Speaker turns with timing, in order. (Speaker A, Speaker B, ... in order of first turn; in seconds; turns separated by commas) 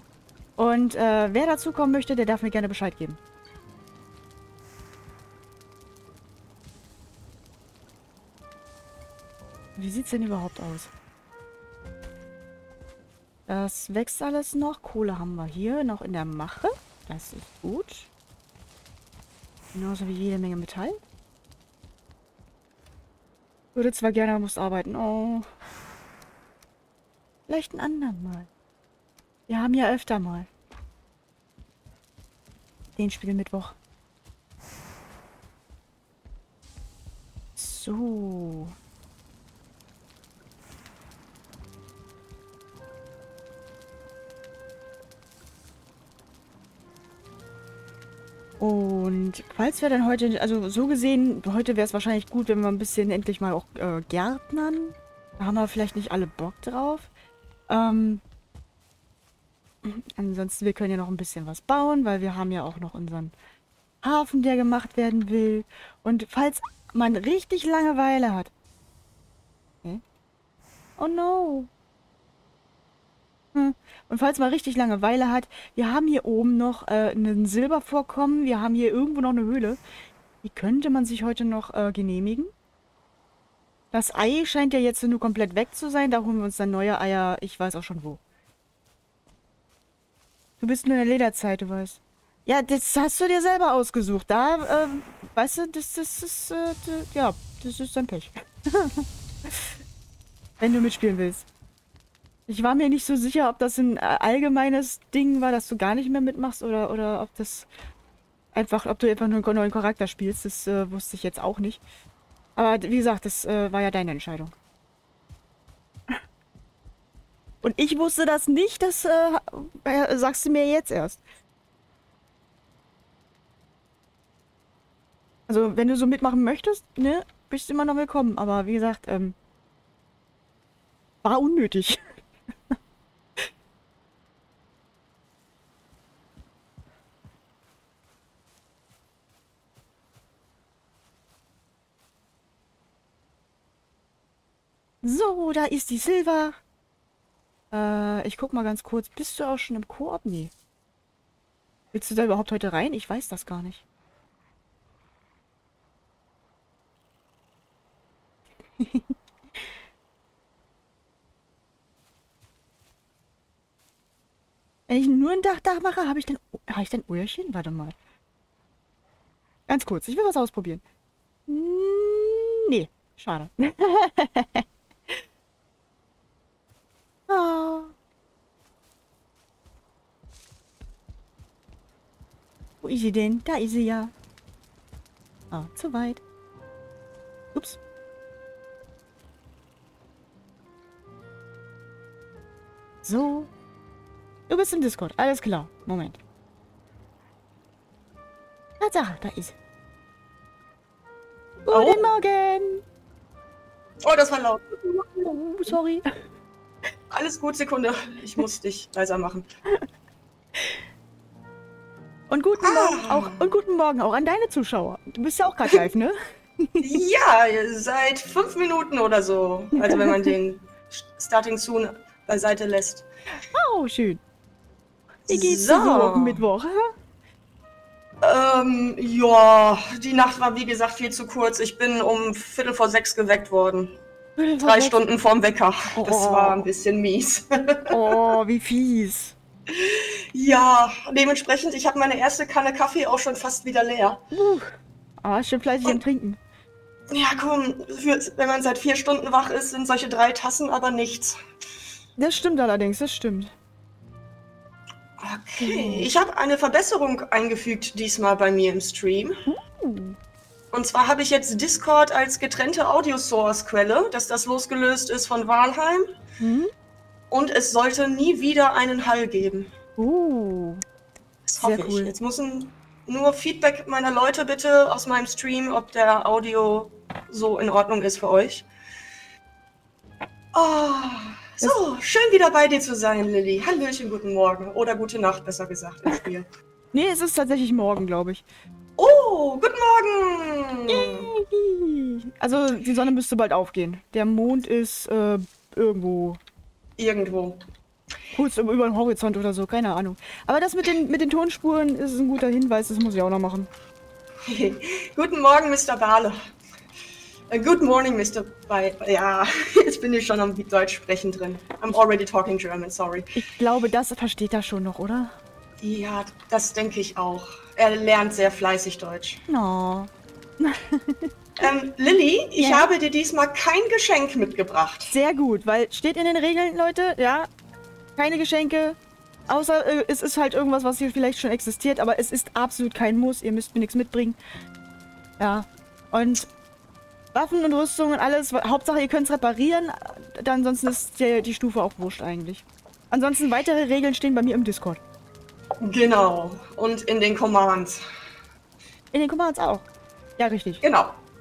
Speaker A: 0.6-3.2, Speaker A: 9.8-10.9, Speaker A: 13.5-18.1, Speaker A: 19.7-21.0, Speaker A: 23.7-25.4, Speaker A: 27.5-28.5, Speaker A: 29.5-30.5, Speaker A: 33.0-33.8, Speaker A: 37.6-38.7, Speaker A: 48.6-57.1, Speaker A: 57.7-58.2, Speaker A: 59.8-63.3, Speaker A: 64.0-68.5, Speaker A: 71.0-71.7, Speaker A: 73.5-79.8, Speaker A: 80.4-82.5, Speaker A: 83.9-88.2, Speaker A: 90.6-99.7, Speaker A: 100.6-101.5, Speaker A: 102.5-107.7, Speaker A: 108.5-111.8, Speaker A: 112.5-114.5, Speaker A: 117.6-121.2, Speaker A: 125.5-129.3, Speaker A: 131.2-132.2, Speaker A: 145.0-146.6, Speaker A: 147.7-150.5, Speaker A: 151.9-153.8, Speaker A: 158.8-159.1, Speaker A: 164.9-167.9, Speaker A: 169.7-170.8, Speaker A: 171.5-175.2, Speaker A: 177.3-177.9, Speaker A: 182.8-184.1, Speaker A: 185.5-186.2, Speaker A: 187.5-187.8, Speaker A: 193.0-193.5, Speaker A: 194.5-196.2, Speaker A: 198.8-199.6, Speaker A: 201.7-202.8, Speaker B: 201.7-202.1, Speaker B: 204.0-205.8, Speaker A: 205.2-206.0, Speaker B: 207.1-209.5, Speaker A: 212.3-216.9, Speaker B: 212.6-213.5, Speaker B: 216.8-223.1, Speaker A: 219.8-220.3, Speaker A: 223.5-224.2, Speaker A: 225.3-226.9, Speaker B: 225.3-226.4, Speaker B: 228.2-234.0, Speaker A: 234.4-235.0, Speaker B: 234.6-237.9, Speaker A: 235.9-236.7, Speaker A: 237.9-239.3, Speaker B: 239.7-244.2, Speaker A: 244.3-246.4, Speaker B: 247.1-251.4, Speaker A: 252.2-253.5, Speaker B: 255.2-259.4, Speaker A: 255.6-256.1, Speaker A: 259.4-260.1, Speaker B: 260.7-266.1, Speaker A: 266.4-266.7, Speaker B: 267.3-269.7, Speaker A: 270.0-270.8, Speaker B: 271.4-278.6, Speaker A: 271.6-272.1, Speaker B: 280.5-286.5, Speaker A: 286.9-288.4, Speaker B: 289.0-291.3, Speaker A: 290.9-296.4, Speaker B: 297.0-297.6, Speaker A: 298.3-303.7, Speaker B: 304.4-306.4, Speaker B: 307.5-313.3, Speaker A: 313.3-315.3, Speaker B: 315.8-319.4, Speaker A: 319.5-321.3, Speaker B: 321.6-325.1, Speaker A: 322.6-322.9, Speaker A: 325.1-327.5, Speaker A: 328.2-334.4, Speaker A: 335.4-336.5, Speaker A: 337.3-345.0, Speaker B: 345.8-348.0, Speaker A: 349.1-349.8, Speaker A: 350.4-350.8, Speaker B: 350.8-351.1